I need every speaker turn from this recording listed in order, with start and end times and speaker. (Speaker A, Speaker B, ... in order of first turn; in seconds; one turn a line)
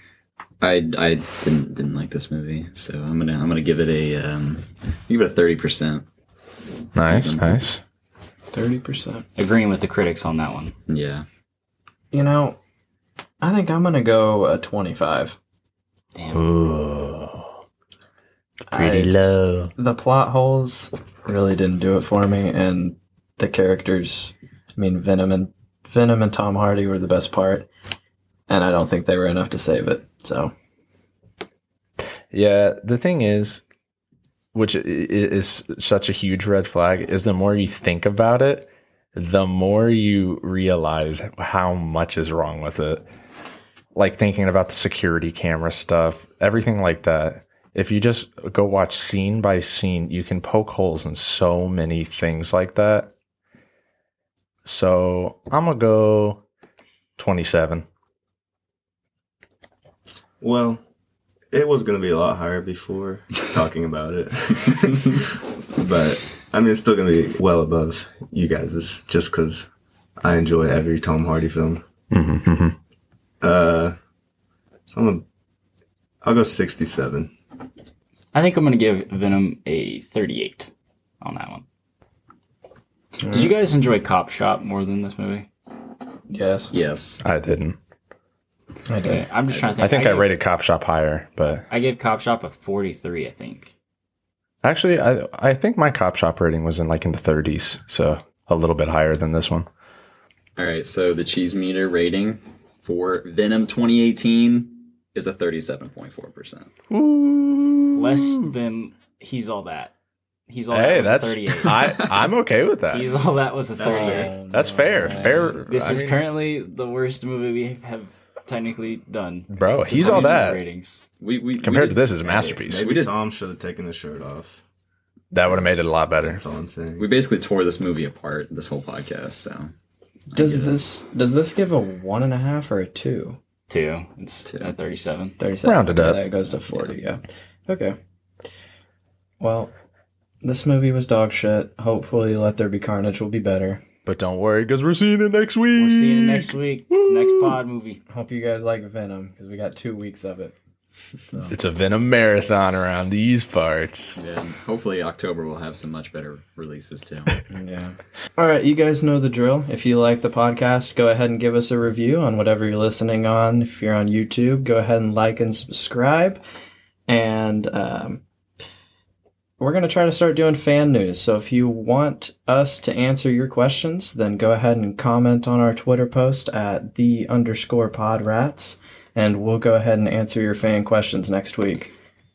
Speaker A: 0.6-6.0
Speaker B: 6.9-7.8
Speaker A: 7.0-7.6
Speaker C: 8.5-9.2
Speaker D: 9.4-10.7
Speaker A: 10.9-11.2
Speaker C: 12.1-12.6
Speaker C: 13.4-15.4
Speaker D: 16.1-16.4
Speaker B: 16.3-17.5
Speaker C: 18.7-27.7
Speaker B: 18.7-19.7
Speaker C: 28.5-30.5
Speaker B: 32.3-33.6
Speaker B: 34.5-43.0
Speaker B: 43.9-53.1
Speaker B: 54.6-56.4
Speaker B: 57.2-57.8
Speaker E: 60.4-60.8
Speaker E: 61.5-69.7
Speaker E: 70.2-71.8
Speaker B: 72.1-72.8
Speaker E: 73.4-74.0
Speaker E: 74.9-75.2
Speaker E: 76.2-77.3
Speaker D: 78.3-81.6
Speaker D: 83.2-85.5
Speaker C: 83.3-83.5
Speaker C: 86.3-86.7
Speaker A: 86.7-87.2
Speaker B: 87.2-87.8
Speaker C: 88.9-89.2
Speaker D: 89.0-90.3
Speaker B: 89.8-91.7
Speaker D: 91.7-93.7
Speaker B: 94.6-99.7
Speaker A: 100.6-106.7
Speaker B: 106.9-108.5
Speaker D: 107.9-109.9
Speaker D: 110.5-112.0
Speaker B: 110.7-113.1
Speaker A: 111.7-112.2
Speaker D: 112.9-114.3
Speaker E: 113.8-114.4
Speaker C: 113.8-115.6
Speaker B: 114.5-116.2
Speaker D: 115.2-121.0
Speaker B: 119.5-120.6
Speaker A: 121.2-123.1
Speaker B: 121.6-122.9
Speaker E: 122.7-124.6
Speaker B: 125.3-126.4
Speaker E: 126.2-127.1
Speaker A: 127.0-129.7
Speaker A: 130.3-130.8
Speaker C: 130.3-133.4
Speaker D: 133.7-135.4
Speaker C: 135.4-137.9
Speaker B: 135.6-136.2
Speaker C: 139.4-139.7
Speaker C: 140.4-143.8
Speaker B: 144.0-147.6
Speaker D: 145.7-148.0
Speaker C: 148.1-150.5
Speaker C: 151.3-151.6
Speaker B: 151.5-154.2
Speaker A: 154.2-157.4
Speaker C: 157.5-166.4
Speaker C: 167.1-168.2
Speaker C: 169.6-181.9